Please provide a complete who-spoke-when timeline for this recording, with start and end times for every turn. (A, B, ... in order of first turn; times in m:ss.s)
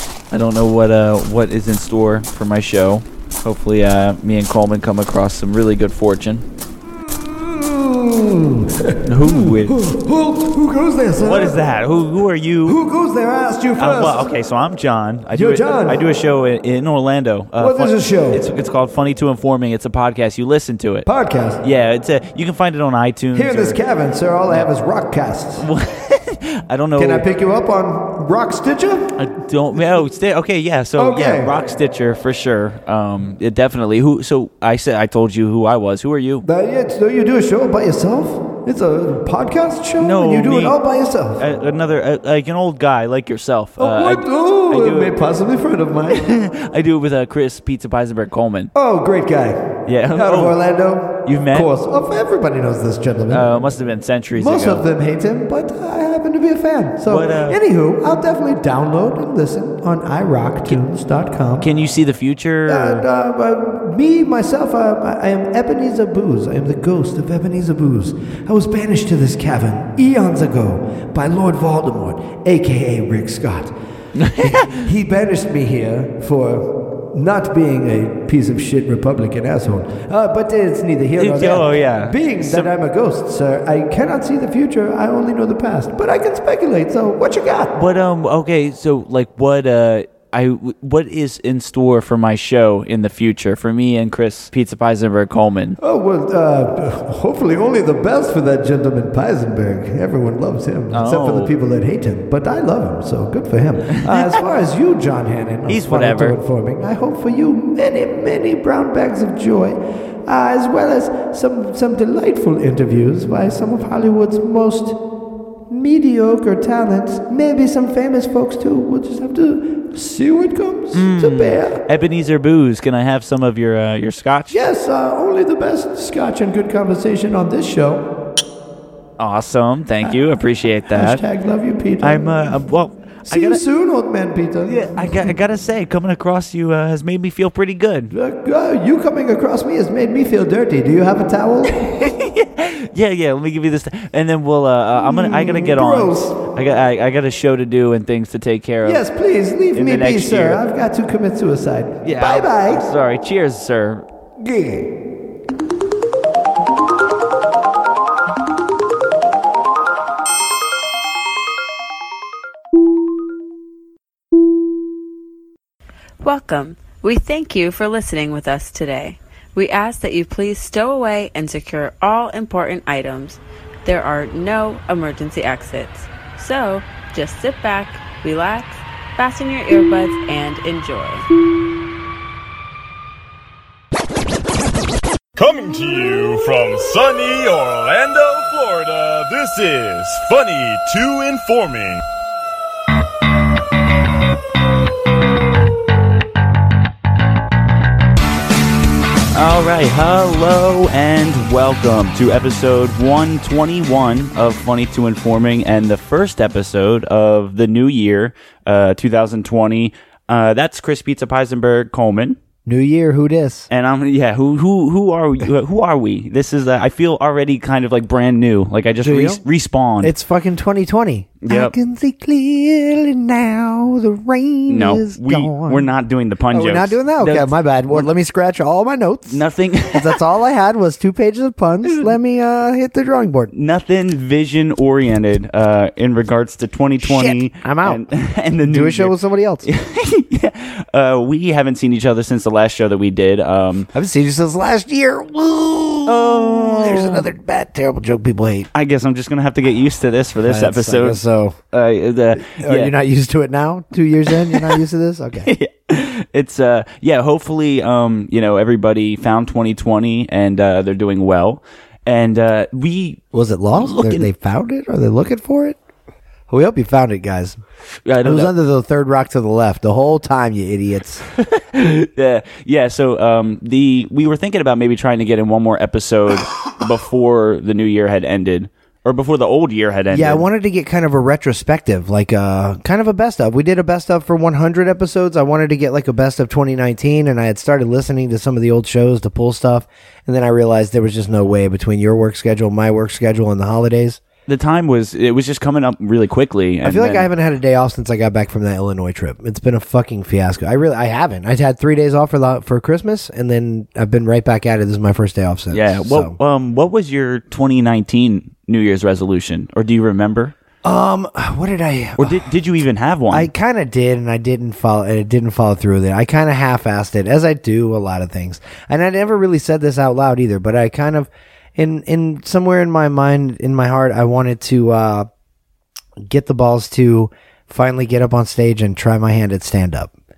0:00.3-0:06.5 A
0:07.0-0:11.6 B
0:09.0-0:09.8 A
0:11.2-0:12.8 A
0:12.6-0:14.3 B
0:13.8-0:21.1 A
0:15.3-0:16.0 B
0:17.6-0:18.4 B
0:21.0-0:21.6 B
0:21.6-0:23.8 A
0:23.3-0:25.6 B
0:25.6-0:27.2 A
0:27.0-0:29.1 B
0:29.2-0:36.4 A
0:31.0-0:31.6 B
0:36.4-0:41.4 B
0:40.0-0:40.8 A
0:41.4-0:45.2 A
0:43.8-0:46.2 B
0:46.1-0:48.7 A
0:48.7-0:53.5 B
0:49.9-0:50.6 A
0:51.2-0:51.7 A
0:53.3-0:54.8 A
0:54.3-1:01.7 B
0:57.1-0:57.6 A
1:01.6-1:03.1 A
1:02.7-1:13.7 B
1:14.1-1:14.9 A
1:14.4-1:27.7 B
1:21.2-1:22.7 A
1:27.7-1:35.8 A
1:35.8-1:55.0 B
1:40.9-1:41.5 A
1:43.9-1:44.4 A
1:45.7-1:46.4 A
1:55.7-2:01.8 B
2:00.9-2:04.6 A
2:04.5-2:08.1 B
2:09.2-2:11.2 A
2:10.9-2:12.5 B
2:12.0-2:13.6 A
2:13.2-2:15.3 B
2:14.7-2:18.1 A
2:18.1-2:22.1 B
2:21.7-2:29.0 A
2:25.0-2:26.4 B
2:28.8-2:32.9 B
2:29.7-2:30.6 A
2:32.0-2:34.0 A
2:34.4-2:34.9 B
2:46.2-3:01.2 C
3:05.4-3:12.0 D
3:19.3-3:32.4 A
3:32.7-3:33.7 B
3:33.7-3:40.1 A
3:39.0-3:39.4 B
3:40.0-3:45.9 B
3:41.4-3:41.8 A
3:44.7-3:48.1 A
3:46.5-3:53.5 B
3:49.3-3:50.2 A
3:53.5-4:03.9 A
3:57.0-3:58.0 B
3:58.7-3:59.7 B
4:03.9-4:08.7 B
4:06.0-4:07.2 A
4:08.7-4:11.2 A
4:10.5-4:11.6 B
4:11.7-4:12.9 A
4:12.5-4:15.5 B
4:14.5-4:14.8 A
4:15.5-4:23.2 A
4:23.3-4:25.8 B
4:23.8-4:24.2 A
4:26.5-4:27.6 B
4:28.1-4:28.5 A
4:28.2-4:31.2 B
4:31.3-4:40.5 A
4:40.1-4:54.2 B
4:54.5-4:57.3 A
4:56.8-5:06.4 B
5:05.7-5:10.6 A
5:10.8-5:12.5 B
5:12.2-5:13.5 A
5:13.3-5:25.3 B
5:26.2-5:30.1 B